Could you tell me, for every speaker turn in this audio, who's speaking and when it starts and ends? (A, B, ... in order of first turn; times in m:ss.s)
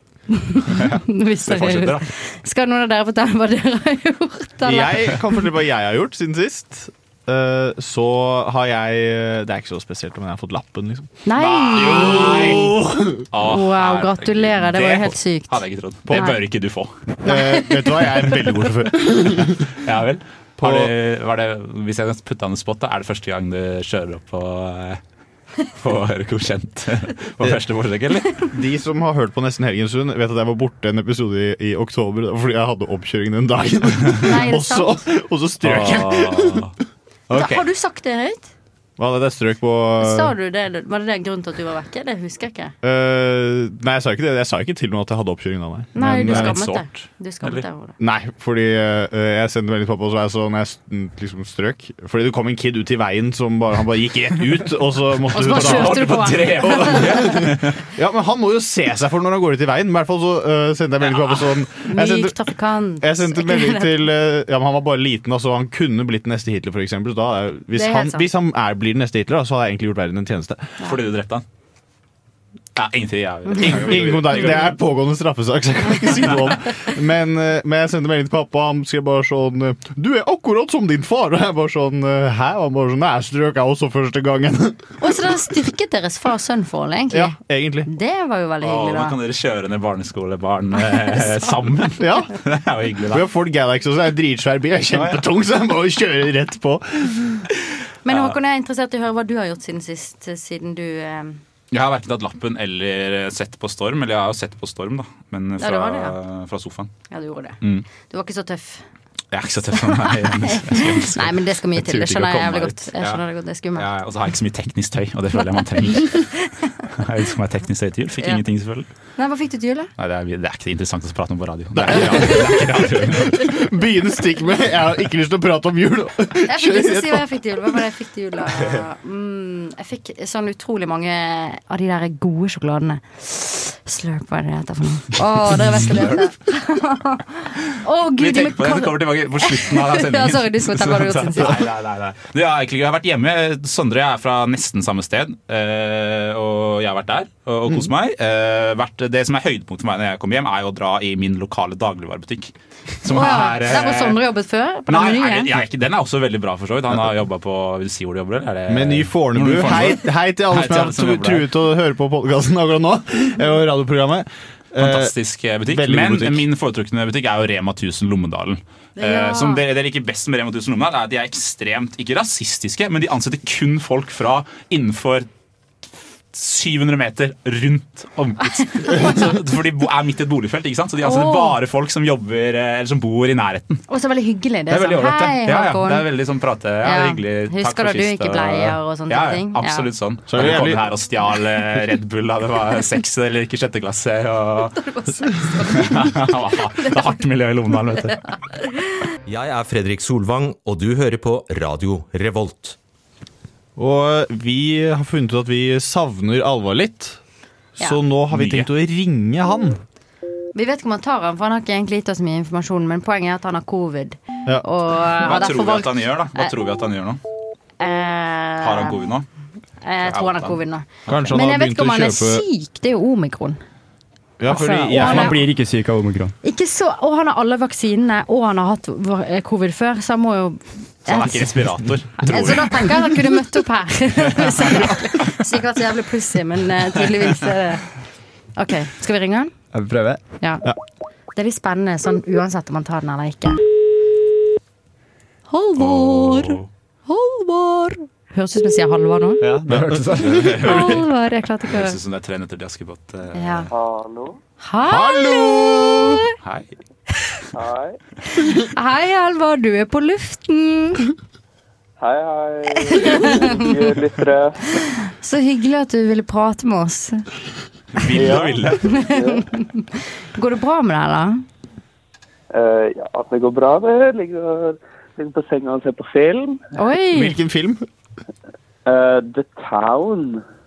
0:00.3-0:05.2 A
0:00.7-0:02.1 B
0:04.6-0:11.1 C
0:11.2-0:12.7 A
0:11.4-0:12.8 B
0:11.8-0:13.2 C
0:13.3-0:16.9 B
0:13.4-0:15.5 A
0:16.1-0:16.3 C
0:16.1-0:16.4 A
0:17.2-0:19.7 C
0:17.2-0:18.2 A
0:19.8-0:25.0 B
0:20.6-0:20.9 C
0:25.7-0:28.4 B
0:28.5-0:36.7 C
0:34.1-0:35.0 A
0:35.6-0:36.8 B
0:37.3-0:38.5 A
0:39.0-0:40.3 C
0:40.0-0:42.7 A
0:42.8-0:46.8 C
0:45.9-0:47.9 A
0:46.0-0:46.7 B
0:48.0-1:02.3 C
0:55.3-0:57.4 A
0:55.4-0:57.8 B
1:01.1-1:01.4 B
1:01.8-1:04.1 A
1:03.0-1:10.7 C
1:07.7-1:08.3 A
1:10.8-1:11.4 B
1:12.8-1:14.7 B
1:13.6-1:24.8 C
1:25.0-1:29.2 A
1:27.1-1:27.9 C
1:28.6-1:33.2 B
1:30.9-1:31.5 A
1:32.0-1:32.4 C
1:33.1-1:37.4 C
1:35.0-1:35.2 B
1:38.0-1:41.4 A
1:38.1-1:38.3 B
1:41.7-1:46.9 B
1:45.6-1:46.2 A
1:47.1-1:48.8 A
1:49.3-1:53.2 B
1:49.8-1:53.9 A
1:53.8-1:56.3 B
1:56.0-1:56.5 A
1:56.9-1:58.9 B
1:59.2-1:59.9 A
2:00.0-2:03.4 B
2:01.8-2:07.8 C
2:02.0-2:02.4 A
2:06.4-2:21.6 A
2:15.7-2:16.2 B
2:18.2-2:34.2 B
2:33.1-2:35.6 A
2:34.9-2:41.5 B
2:38.7-2:45.1 C
2:44.8-2:55.3 B
2:45.6-2:46.4 C
2:49.0-2:49.6 A
2:56.3-3:03.8 B
2:58.6-2:59.3 A
3:01.0-3:01.6 A
3:03.9-3:06.1 A
3:04.7-3:14.8 B
3:06.8-3:09.9 A
3:10.3-3:10.8 C
3:14.8-3:17.0 A
3:15.8-3:18.2 B
3:18.5-3:18.9 A
3:19.2-3:22.8 D
3:23.8-3:27.2 C
3:27.8-3:29.8 C
3:28.3-3:28.7 B
3:30.5-3:36.5 A
3:35.2-3:37.2 B
3:37.8-3:39.0 A
3:38.6-3:39.3 B
3:39.8-3:43.6 A
3:40.0-3:41.3 B
3:41.1-3:42.4 C
3:44.4-3:45.4 C
3:44.5-3:45.4 A
3:44.9-3:46.3 E
3:46.4-3:51.6 A
3:51.1-3:53.1 B
3:52.2-3:57.9 A
3:58.6-3:59.5 A
3:59.7-4:00.2 E
4:00.4-4:00.7 A
4:01.4-4:03.6 A
4:05.5-4:09.4 A
4:05.8-4:06.7 B
4:09.4-4:10.6 E
4:09.6-4:11.0 C
4:10.2-4:11.0 B
4:10.6-4:12.0 A
4:11.7-4:13.7 B
4:13.3-4:13.7 A
4:13.7-4:14.4 F
4:14.6-4:16.3 A
4:14.9-4:16.2 C
4:16.4-4:16.7 B
4:17.5-4:18.0 F
4:18.4-4:21.1 A
4:22.0-4:24.8 F
4:22.9-4:23.6 A
4:25.1-4:27.2 A
4:28.0-4:28.8 B
4:28.1-4:29.4 F
4:28.8-4:31.4 A
4:32.5-4:36.6 F
4:36.8-4:37.4 A
4:37.1-4:37.9 C
4:38.9-4:40.4 F